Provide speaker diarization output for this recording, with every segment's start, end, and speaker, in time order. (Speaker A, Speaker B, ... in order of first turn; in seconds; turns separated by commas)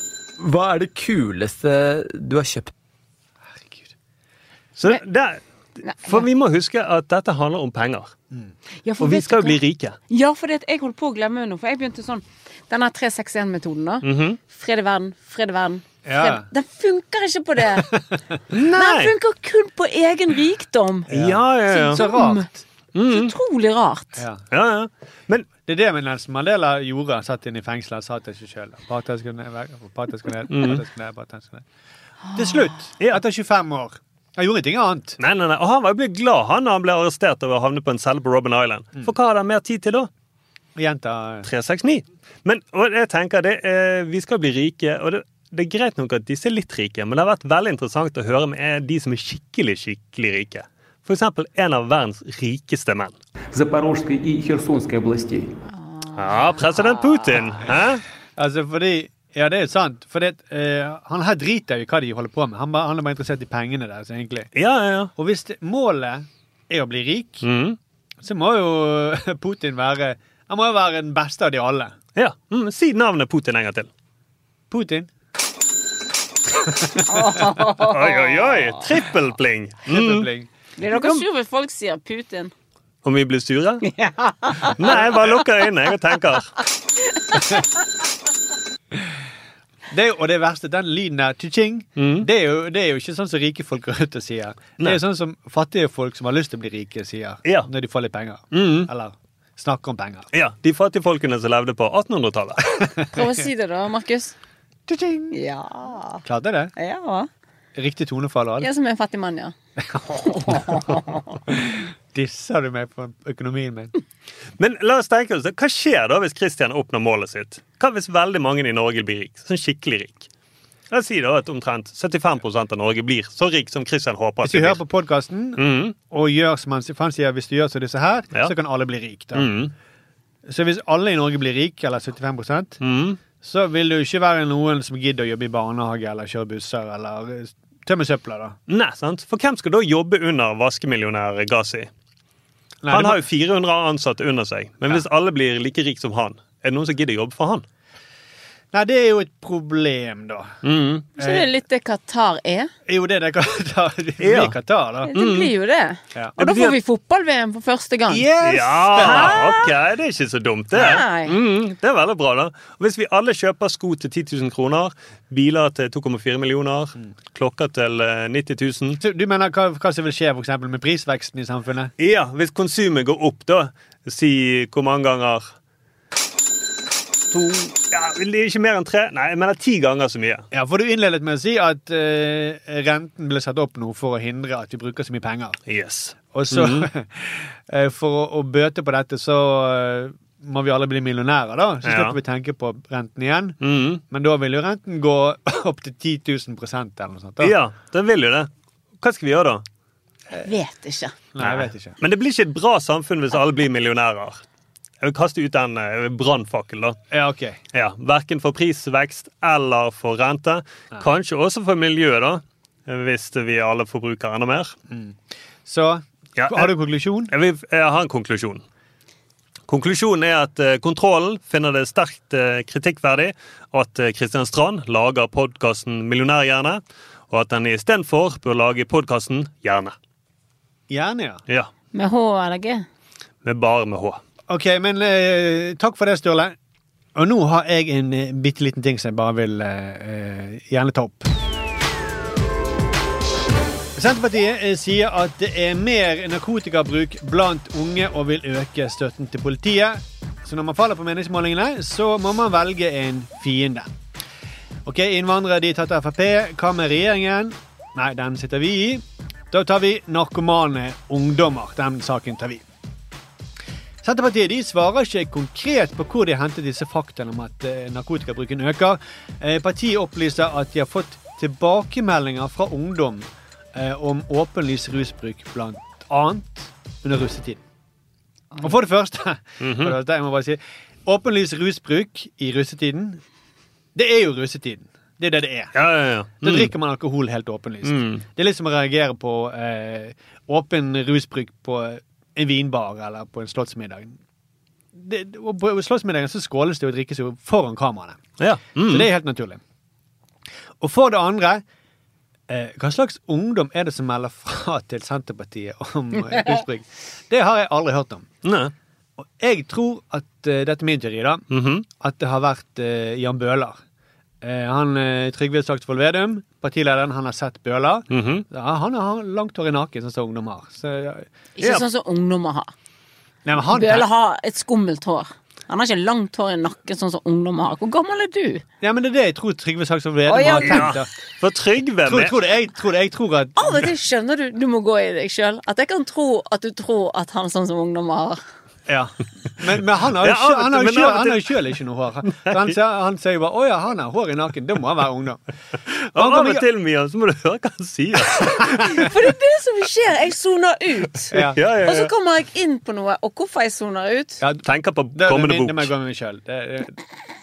Speaker A: 0.4-2.7, Speaker B: 3.5-3.9, Speaker C: 4.8-5.4, Speaker D: 5.8-6.2, Speaker C: 6.0-8.1, Speaker D: 8.8-9.6, Speaker C: 9.0-10.0, Speaker D: 10.1-17.9, Speaker C: 14.0-14.4, Speaker B: 16.1-16.5, Speaker B: 17.9-18.2, Speaker C: 18.5-19.1, Speaker D: 18.7-21.1, Speaker B: 21.1-22.6, Speaker C: 21.1-22.0, Speaker D: 21.7-22.5, Speaker C: 22.9-23.3, Speaker D: 23.1-24.2, Speaker B: 24.2-24.4, Speaker C: 24.5-25.5, Speaker B: 25.6-31.6, Speaker C: 30.5-30.8, Speaker D: 32.3-32.7, Speaker B: 32.4-35.2, Speaker C: 35.2-40.1, Speaker B: 40.8-41.5, Speaker C: 41.5-53.1, Speaker E: 53.5-55.5, Speaker D: 55.7-57.4, Speaker C: 56.2-58.0, Speaker B: 58.4-64.5, Speaker C: 64.5-65.1, Speaker B: 65.2-67.5, Speaker C: 67.4-67.8, Speaker B: 68.2-72.0, Speaker C: 72.2-73.9, Speaker B: 74.7-75.1, Speaker D: 77.0-78.8, Speaker C: 77.8-80.3, Speaker B: 79.9-80.5, Speaker D: 80.8-82.5, Speaker C: 80.9-81.2, Speaker C: 83.0-83.8, Speaker D: 83.8-85.3, Speaker C: 84.7-86.6, Speaker D: 87.2-87.6, Speaker B: 89.9-100.3, Speaker C: 92.0-92.3, Speaker C: 97.5-97.7, Speaker C: 98.5-98.9, Speaker C: 100.3-102.6, Speaker D: 103.1-104.4, Speaker B: 104.9-105.4, Speaker D: 105.3-106.2, Speaker B: 106.2-106.7, Speaker D: 106.8-107.3, Speaker B: 107.8-108.7, Speaker D: 108.6-109.5, Speaker B: 109.9-110.9, Speaker D: 110.3-111.2, Speaker B: 111.5-113.9, Speaker C: 114.6-120.3, Speaker C: 120.9-124.8, Speaker B: 124.4-129.5, Speaker C: 125.6-126.0, Speaker C: 129.3-129.7, Speaker B: 130.4-132.8, Speaker C: 132.8-133.2, Speaker B: 133.4-138.6, Speaker C: 138.7-141.9, Speaker B: 142.8-143.2, Speaker C: 142.9-147.6, Speaker B: 148.7-150.5, Speaker C: 150.6-151.1, Speaker D: 151.2-152.7, Speaker B: 151.2-151.5, Speaker B: 152.9-155.1, Speaker C: 154.2-154.6, Speaker D: 155.1-158.3, Speaker C: 155.1-155.5, Speaker C: 156.4-156.8, Speaker B: 158.1-159.6, Speaker C: 158.4-169.0, Speaker D: 159.0-159.6, Speaker D: 160.8-161.4, Speaker B: 169.0-171.9, Speaker C: 172.0-175.5, Speaker C: 177.3-180.5, Speaker B: 180.5-185.6, Speaker C: 185.7-186.9, Speaker B: 186.3-193.6, Speaker C: 191.8-192.2, Speaker C: 193.6-194.0, Speaker B: 194.1-197.6, Speaker C: 197.4-198.5, Speaker C: 199.0-199.6, Speaker D: 200.4-201.2, Speaker B: 201.3-201.9, Speaker C: 201.4-204.4, Speaker C: 205.0-207.0, Speaker B: 207.1-207.6, Speaker C: 207.7-214.8, Speaker B: 214.9-217.3, Speaker C: 216.4-216.7, Speaker C: 217.3-218.6, Speaker C: 219.7-229.9, Speaker B: 230.9-231.4, Speaker D: 231.9-232.9, Speaker C: 233.4-234.2, Speaker B: 234.5-236.6, Speaker B: 237.2-241.3, Speaker B: 243.9-253.9, Speaker B: 254.8-262.6, Speaker B: 264.0-277.6, Speaker B: 278.6-283.2, Speaker C: 279.6-280.0, Speaker B: 283.9-285.8, Speaker C: 285.8-286.7, Speaker B: 286.4-294.2, Speaker C: 287.8-288.2, Speaker B: 294.9-299.6, Speaker C: 298.4-299.1, Speaker B: 300.8-301.6, Speaker B: 302.5-308.3, Speaker C: 308.4-308.7, Speaker B: 309.2-313.8, Speaker C: 311.5-311.9, Speaker B: 314.4-321.3, Speaker C: 318.1-318.4, Speaker D: 321.6-322.7, Speaker B: 323.4-324.1, Speaker D: 323.7-328.6, Speaker B: 328.8-331.1, Speaker D: 330.3-330.9, Speaker C: 330.6-332.4, Speaker B: 332.1-333.8, Speaker D: 333.6-338.4, Speaker B: 338.9-345.4, Speaker C: 340.2-341.6, Speaker B: 346.0-346.6, Speaker C: 346.1-349.0, Speaker D: 348.8-354.4, Speaker B: 351.3-351.6, Speaker C: 351.4-352.1, Speaker B: 354.4-357.0, Speaker C: 354.6-355.9